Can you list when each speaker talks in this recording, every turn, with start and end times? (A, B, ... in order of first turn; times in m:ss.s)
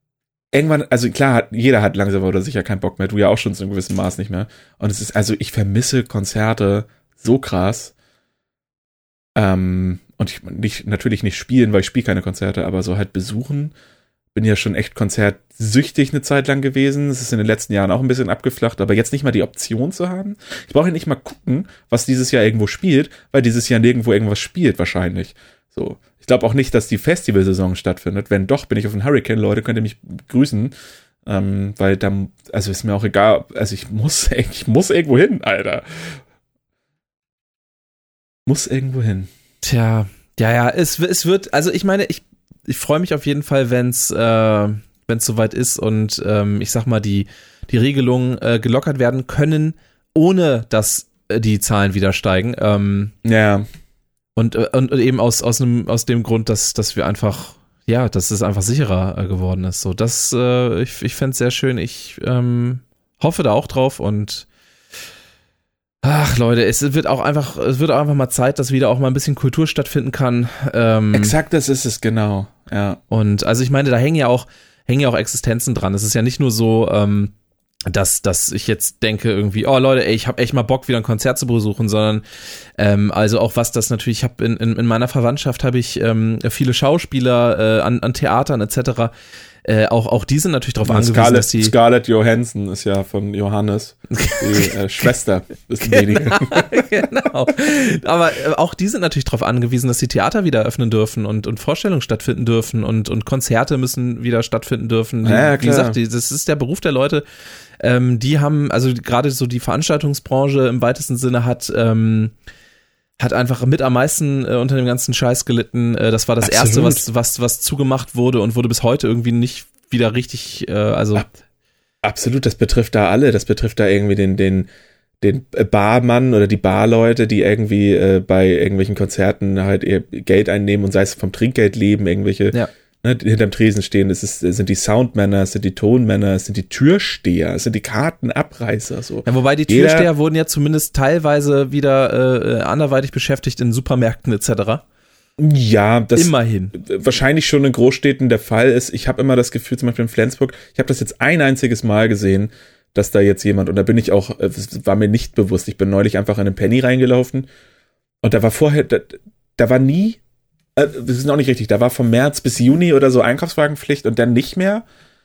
0:00.5-0:07.9 A
0:09.4-0:13.7 A
0:14.3-0:30.7 A
0:31.2-0:36.2 A
0:38.4-0:39.3 A
0:39.6-0:53.1 B
0:53.2-0:53.6 A
0:54.4-1:04.5 B
1:06.0-1:11.3 B
1:11.1-1:13.0 A
1:13.1-1:17.3 B
1:17.9-1:22.2 B
1:22.8-1:29.1 B
1:29.6-1:31.7 B
1:30.8-1:36.8 A
1:34.1-1:34.8 B
1:35.8-1:47.2 B
1:45.2-1:46.0 A
1:47.8-1:52.3 B
1:53.2-2:01.3 B
1:56.4-1:57.0 A
2:02.0-2:04.7 A
2:05.2-2:20.1 A
2:19.2-2:24.8 B
2:25.4-2:37.5 A
2:26.2-2:26.7 B
2:38.2-2:40.2 A
2:40.8-2:44.8 A